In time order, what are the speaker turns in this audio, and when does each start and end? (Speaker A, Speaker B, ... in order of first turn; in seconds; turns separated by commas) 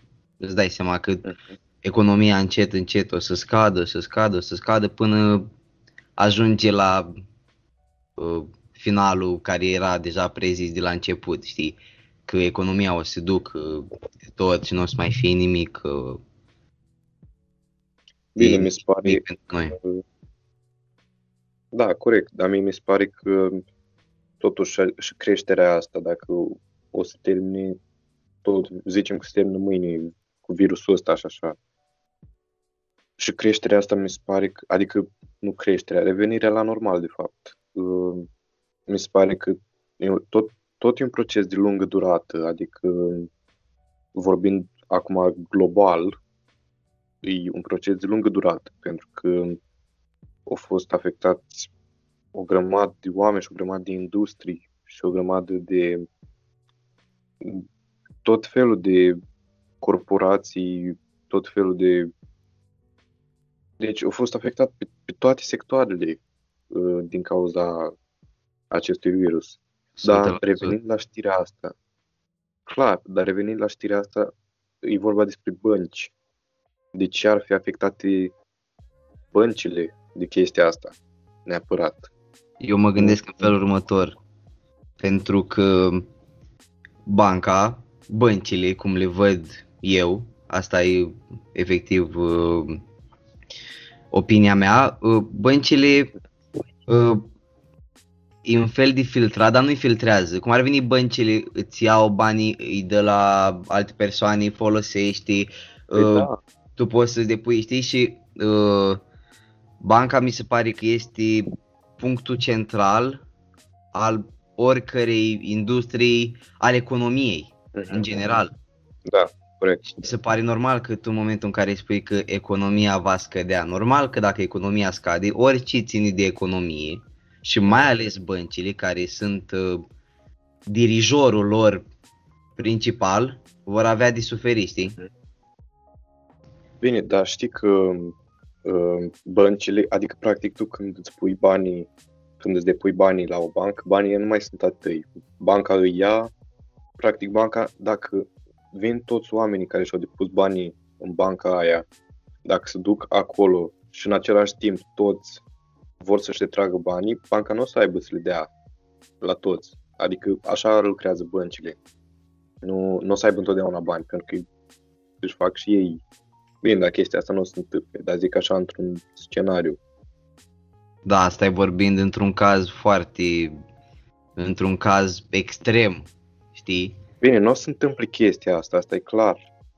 Speaker A: 0.4-1.3, Speaker B: 1.2-1.6, Speaker A: 1.8-5.5, Speaker A: 6.2-7.1, Speaker A: 8.2-16.2, Speaker B: 18.4-19.2, Speaker A: 18.4-19.8, Speaker B: 19.8-20.0, Speaker B: 21.7-23.6, Speaker B: 24.4-27.8, Speaker B: 28.4-31.6, Speaker B: 33.2-38.3, Speaker B: 38.9-43.3, Speaker B: 44.1-46.2, Speaker B: 47.2-49.6, Speaker B: 50.5-51.7, Speaker B: 52.3-56.0, Speaker B: 58.2-59.2, Speaker B: 59.8-62.1, Speaker B: 63.8-67.9, Speaker B: 68.7-71.8, Speaker A: 70.0-70.8, Speaker B: 72.7-74.3, Speaker B: 74.8-76.1, Speaker B: 76.9-78.3, Speaker B: 79.3-81.0, Speaker B: 81.5-82.1, Speaker A: 82.6-84.2, Speaker A: 85.0-86.1, Speaker A: 87.1-92.8, Speaker A: 94.1-96.1, Speaker A: 96.9-97.2, Speaker A: 98.5-109.0, Speaker B: 106.0-106.4, Speaker A: 109.8-113.2, Speaker A: 113.9-118.5, Speaker B: 117.7-118.4, Speaker B: 119.1-119.9, Speaker A: 119.9-129.8, Speaker A: 130.7-131.8, Speaker A: 132.6-135.0, Speaker B: 136.8-141.9, Speaker B: 142.4-146.3, Speaker B: 147.0-151.9, Speaker B: 152.4-155.4, Speaker B: 156.0-158.5, Speaker B: 159.2-161.8, Speaker B: 162.6-164.4, Speaker B: 165.2-166.0, Speaker B: 166.6-169.8, Speaker A: 171.1-173.6, Speaker A: 174.4-177.0, Speaker B: 177.2-179.4